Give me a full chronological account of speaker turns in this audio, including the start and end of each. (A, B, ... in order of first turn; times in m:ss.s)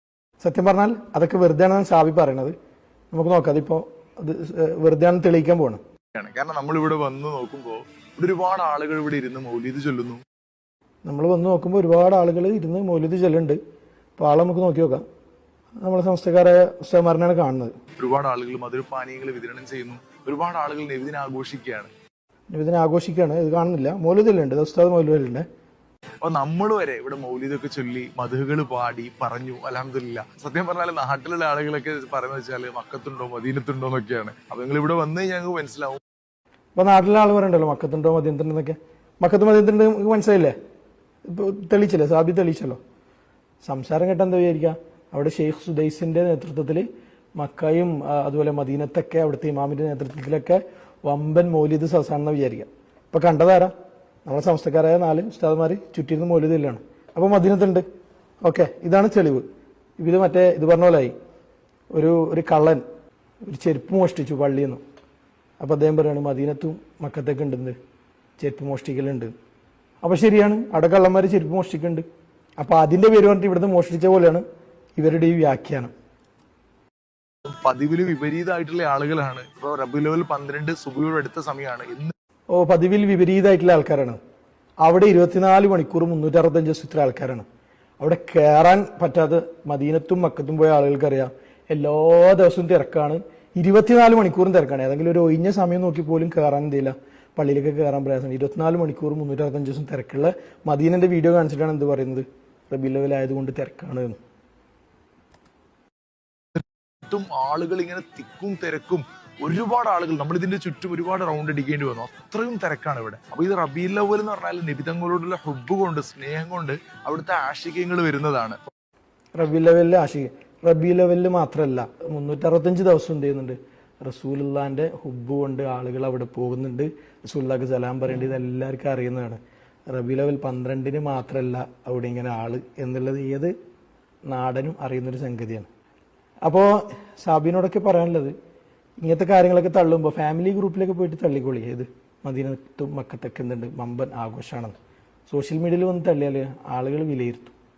0:00.4-0:02.5 A
0:03.1-0:05.8 A
0:06.2-0:10.2 B
0:11.0-0:13.6 A
0:14.2-0:15.0 A
0:15.8-0:17.7 A
0:18.0-0:21.9 B
0:22.5-0:25.4 A
0:26.2-0:36.0 B
0:36.8-0:40.5 A
0:41.2-0:42.8 A
0:43.6-0:53.7 A
0:54.2-0:57.8 A
0:58.4-0:59.4 A
1:00.0-1:01.1 A
1:01.9-1:02.8 A
1:03.5-1:04.8 A
1:05.6-1:07.8 A
1:08.4-1:09.3 A
1:10.0-1:12.0 A
1:12.6-1:14.4 A
1:14.9-1:15.9 A
1:17.4-1:22.1 B
1:22.5-1:24.2 A
1:24.8-1:27.4 A
1:28.0-1:44.2 A
1:47.1-1:58.6 B
1:59.3-2:13.5 A
2:14.2-2:15.7 A
2:16.4-2:18.3 A
2:19.0-2:24.8 A
2:25.3-2:27.5 A